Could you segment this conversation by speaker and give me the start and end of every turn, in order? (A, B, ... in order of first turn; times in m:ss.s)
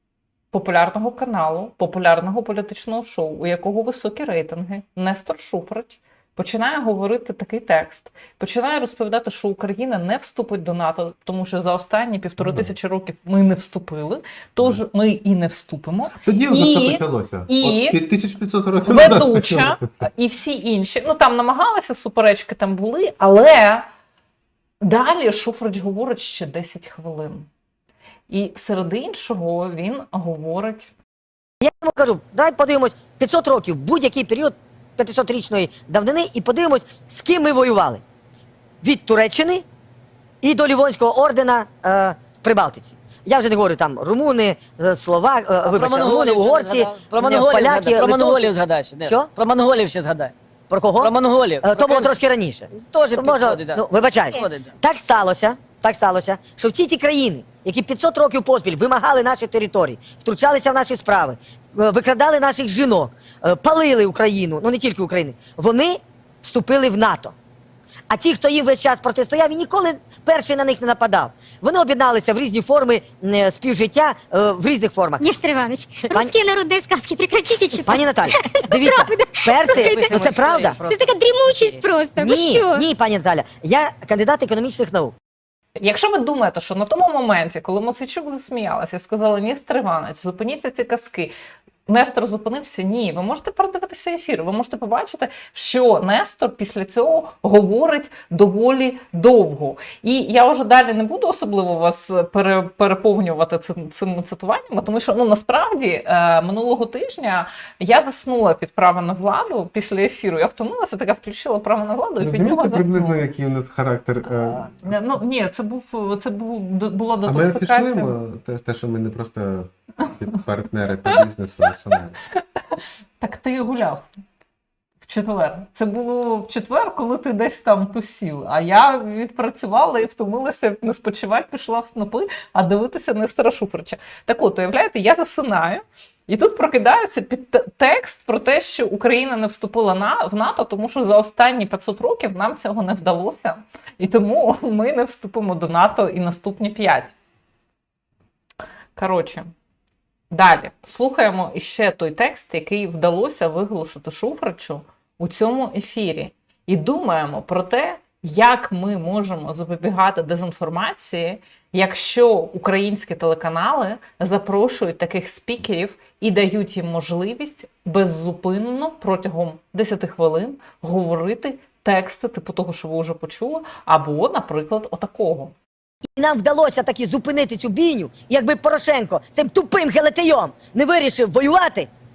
0:00.5-0:18.0 A
0:12.4-0:12.7 B
0:16.2-0:19.9 B
0:18.9-0:23.9 A
0:24.8-0:27.5 A
0:28.3-0:30.9 A
0:31.6-0:38.0 C
0:38.8-0:39.6 C
0:40.4-0:48.5 C
0:45.6-0:50.3 D
0:49.0-0:49.3 C
0:50.7-1:07.3 C
0:51.0-0:52.1 D
0:52.8-0:54.7 D
1:08.1-1:15.2 C
1:15.2-1:20.2 E
1:17.8-1:20.8 C
1:19.7-1:21.9 D
1:20.8-1:22.8 E
1:22.2-1:25.1 C
1:25.8-1:31.3 A
1:31.9-1:53.3 A
1:52.2-1:54.9 B
1:54.3-1:58.2 A
1:57.3-2:02.2 B
2:02.3-2:04.1 A
2:05.0-2:27.1 A
2:29.0-2:29.5 A
2:30.3-2:55.5 A
2:56.2-3:01.9 C